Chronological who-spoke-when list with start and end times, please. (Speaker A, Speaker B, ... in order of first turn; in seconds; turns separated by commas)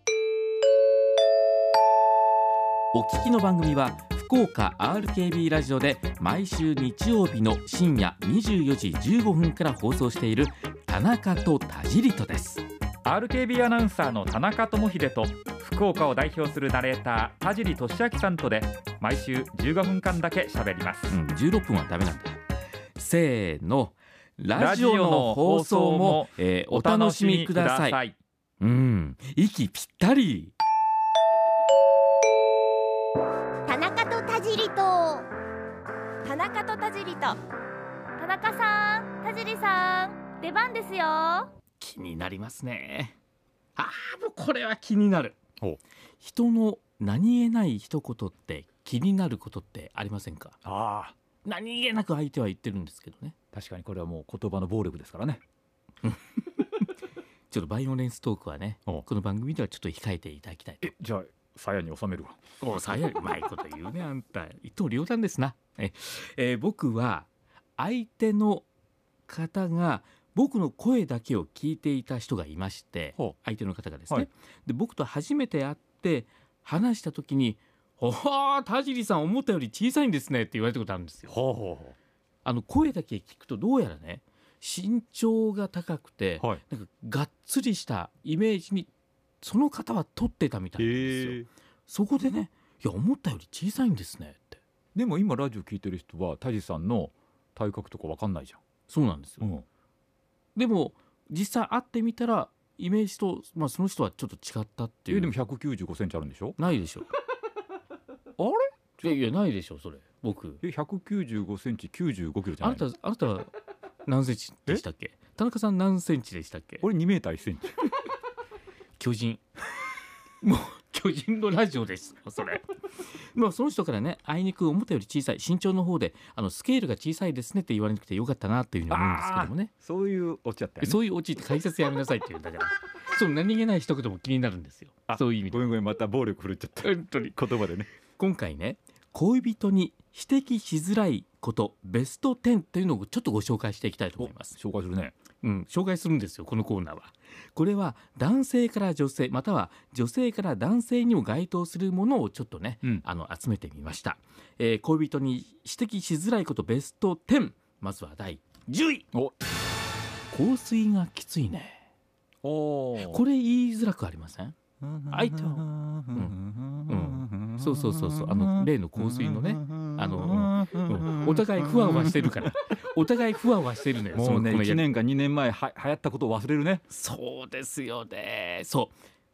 Speaker A: 2.9-12.6, Speaker B: 13.0-21.1, Speaker A: 21.1-22.4, Speaker A: 23.0-28.0, Speaker B: 24.6-28.2, Speaker A: 28.6-30.5, Speaker C: 33.7-35.3, Speaker C: 36.2-37.4, Speaker C: 38.2-41.5, Speaker A: 41.8-43.1, Speaker A: 43.8-45.4, Speaker A: 46.2-50.6, Speaker B: 50.6-51.1, Speaker A: 51.5-53.4, Speaker B: 53.5-55.4, Speaker A: 56.0-56.9, Speaker A: 57.5-61.0, Speaker B: 60.8-62.4, Speaker A: 62.6-68.7, Speaker A: 69.3-81.3, Speaker B: 81.3-82.0, Speaker A: 82.5-88.9, Speaker A: 89.4-94.6, Speaker B: 90.8-91.5, Speaker B: 95.0-98.6, Speaker A: 98.9-99.5, Speaker A: 100.5-105.3, Speaker B: 105.1-106.6, Speaker A: 106.6-107.1, Speaker B: 108.4-109.2, Speaker A: 109.0-110.6, Speaker B: 110.6-112.8, Speaker A: 112.6-113.5, Speaker A: 114.1-116.8, Speaker B: 116.8-117.8, Speaker A: 119.0-119.4, Speaker A: 120.4-122.7, Speaker A: 123.3-129.7, Speaker B: 128.9-131.0, Speaker A: 130.8-135.7, Speaker B: 135.1-137.9, Speaker A: 136.8-137.4, Speaker A: 138.0-144.6, Speaker B: 144.4-145.2, Speaker A: 145.4-159.1, Speaker A: 160.3-161.8, Speaker B: 162.4-163.2, Speaker A: 163.0-164.6, Speaker B: 164.8-172.3, Speaker A: 165.1-166.4, Speaker A: 166.9-174.9, Speaker B: 174.1-176.8, Speaker A: 176.9-179.0